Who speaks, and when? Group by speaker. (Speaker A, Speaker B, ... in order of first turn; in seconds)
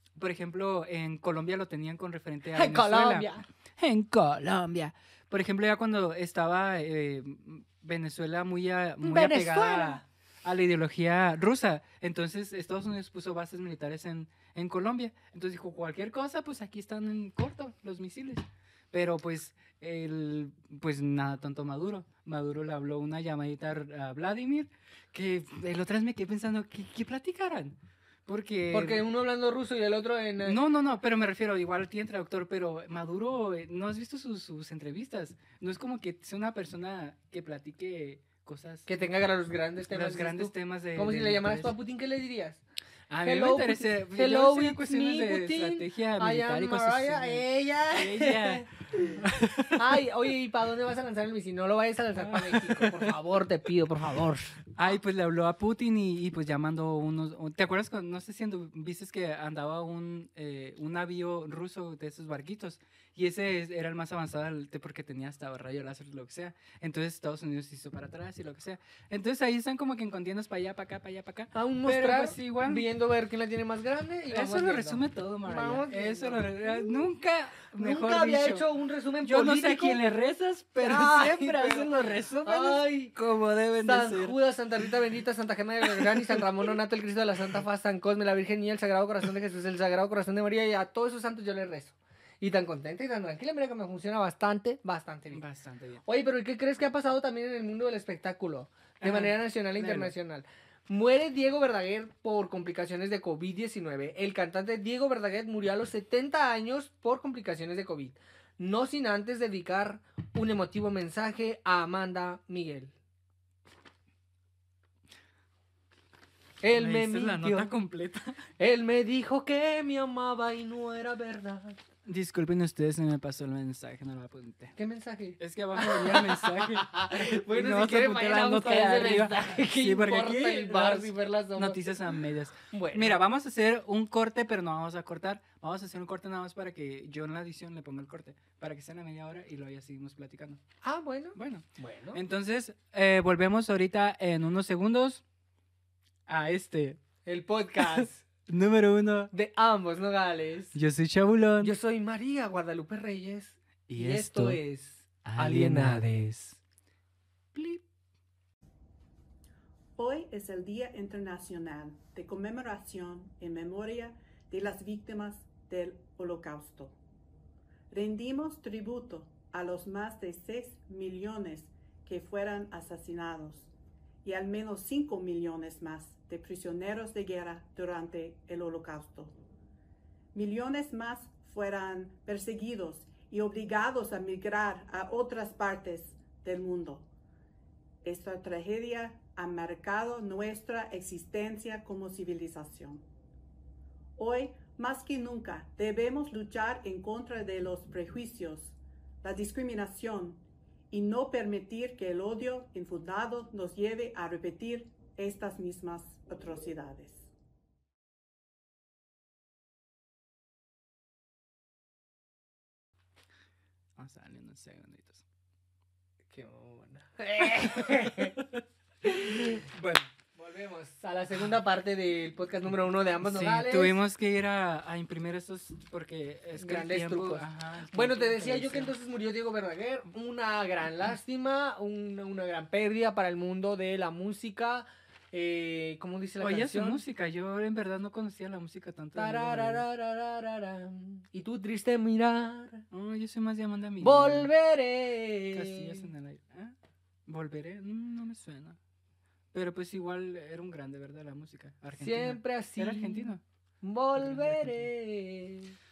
Speaker A: 0.1-29.0, 30.4-39.0, 39.9-41.7, 43.1-48.6, 49.2-49.8, 52.1-53.1, 54.7-72.8, 74.3-78.6, 79.2-84.4, 95.3-96.0, 99.0-100.1, 116.7-118.4, 122.0-124.8, 125.4-140.6, 141.3-145.2, 146.3-147.0, 147.9-149.3, 150.7-151.7, 153.9-154.6, 155.2-156.6, 214.0-215.2, 218.1-220.1, 223.2-228.9, 236.4-239.8, 242.9-244.5, 245.5-246.7, 247.3-248.8, 249.5-253.4, 254.2-254.8
Speaker B: 2.5-3.4, 9.0-10.0, 28.7-30.6, 38.9-42.6, 43.2-54.6, 71.5-77.0, 77.8-80.0, 80.8-83.1, 83.8-95.4, 96.0-112.9, 116.6-117.7, 118.6-121.8, 124.8-131.9, 132.7-133.2, 140.8-142.2, 147.2-148.2, 149.3-150.8, 151.6-156.2, 157.5-157.8, 216.3-218.4, 219.0-219.6, 220.3-224.0, 226.6-237.0, 239.2-242.8, 244.0-246.1, 252.0-255.7
Speaker C: 159.9-166.9, 167.9-173.7, 174.2-179.3, 180.3-187.1, 188.0-193.0, 194.2-207.3